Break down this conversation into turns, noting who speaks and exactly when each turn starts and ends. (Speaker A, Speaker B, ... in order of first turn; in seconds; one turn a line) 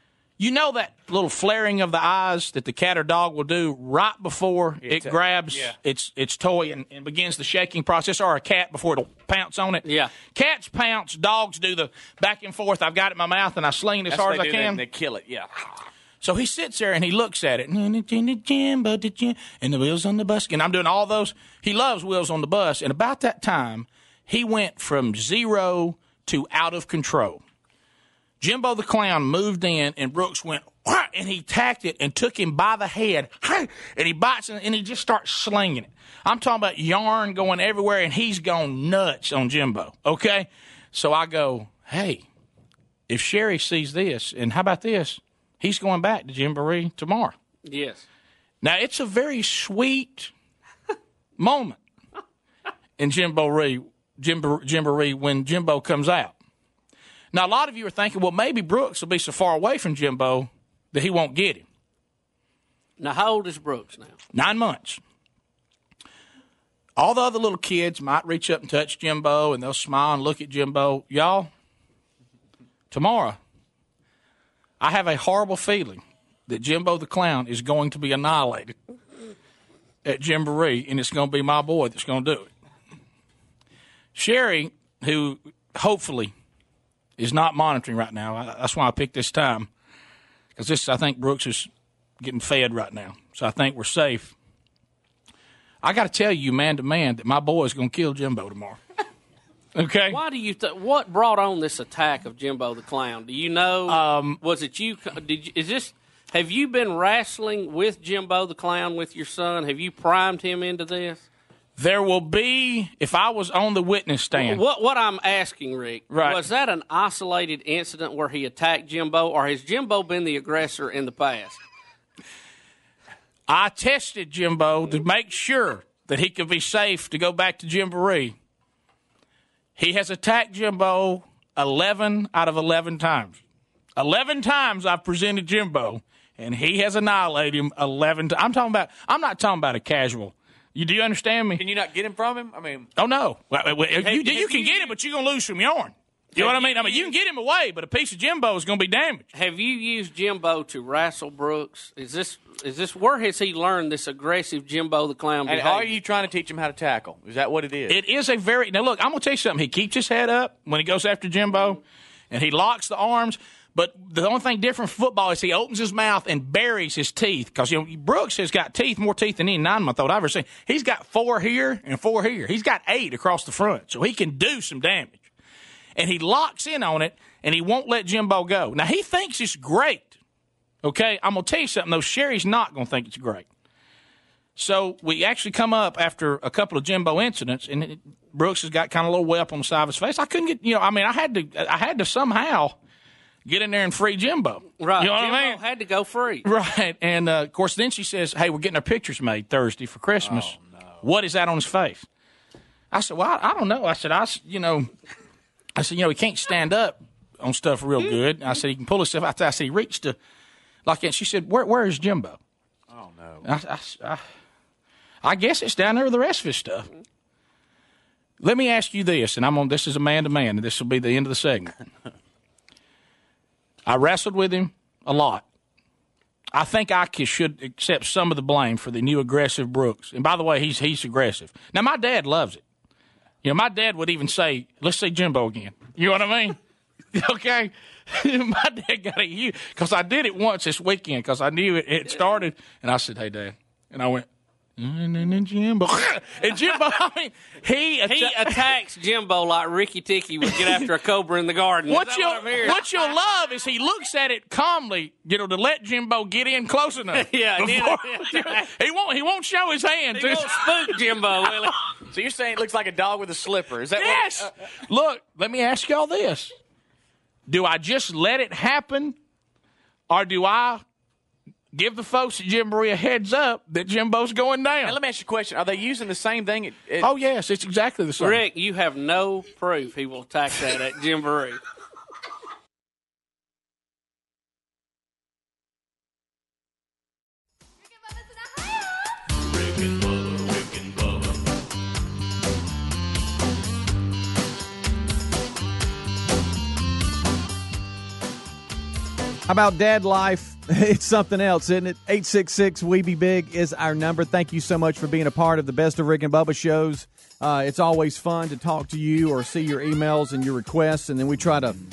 Speaker A: 0.4-14.8
Speaker B: 4.8-5.8
Speaker C: 9.8-10.1
Speaker B: 14.1-15.8
Speaker A: 16.2-27.4
Speaker A: 28.4-42.2
Speaker A: 43.1-47.3
Speaker C: 47.6-48.0
Speaker A: 48.6-50.3
Speaker A: 51.4-51.8
Speaker A: 53.0-56.4
Speaker A: 57.3-61.6
Speaker C: 63.0-64.2
Speaker A: 64.3-65.0
Speaker A: 67.0-71.5
Speaker A: 72.9-73.4
Speaker A: 74.8-78.8
Speaker A: 80.0-82.5
Speaker A: 84.1-86.3
Speaker A: 87.2-89.7
Speaker A: 90.5-94.3
Speaker A: 95.8-98.8
Speaker A: 99.7-100.2
Speaker C: 100.1-111.3
Speaker A: 103.9-104.4
Speaker A: 111.8-114.6
Speaker C: 114.3-121.6
Speaker A: 116.1-116.4
Speaker A: 123.5-128.4
Speaker A: 129.8-133.4
Speaker A: 134.0-141.6
Speaker B: 141.6-142.9
Speaker A: 143.0-149.2
Speaker B: 144.1-144.9
Speaker C: 146.4-147.0
Speaker C: 149.3-156.0
Speaker B: 155.4-158.0
Speaker A: 157.9-175.3
Speaker A: 175.9-180.2
Speaker A: 180.8-183.5
Speaker A: 184.6-192.8
Speaker A: 193.4-195.6
Speaker C: 194.8-196.4
Speaker A: 196.4-202.1
Speaker B: 200.2-201.0
Speaker A: 202.9-204.9
Speaker A: 205.8-210.2
Speaker A: 210.8-212.4
Speaker B: 212.9-213.5
Speaker A: 213.4-214.2
Speaker A: 215.2-216.9
Speaker A: 218.4-221.7
Speaker A: 223.9-225.4
Speaker A: 226.5-232.6
Speaker A: 233.4-236.6
Speaker A: 237.1-244.3
Speaker A: 244.8-248.7
Speaker C: 248.1-252.9
Speaker A: 251.9-260.9
Speaker C: 257.1-258.7
Speaker B: 260.1-260.4
Speaker C: 260.3-261.8
Speaker B: 262.1-264.5
Speaker A: 263.9-266.5
Speaker A: 267.5-269.1
Speaker A: 270.1-270.8
Speaker A: 271.7-275.0
Speaker B: 274.8-277.1
Speaker A: 277.0-278.4
Speaker C: 278.2-281.6
Speaker D: 289.4-291.4
Speaker E: 299.5-311.8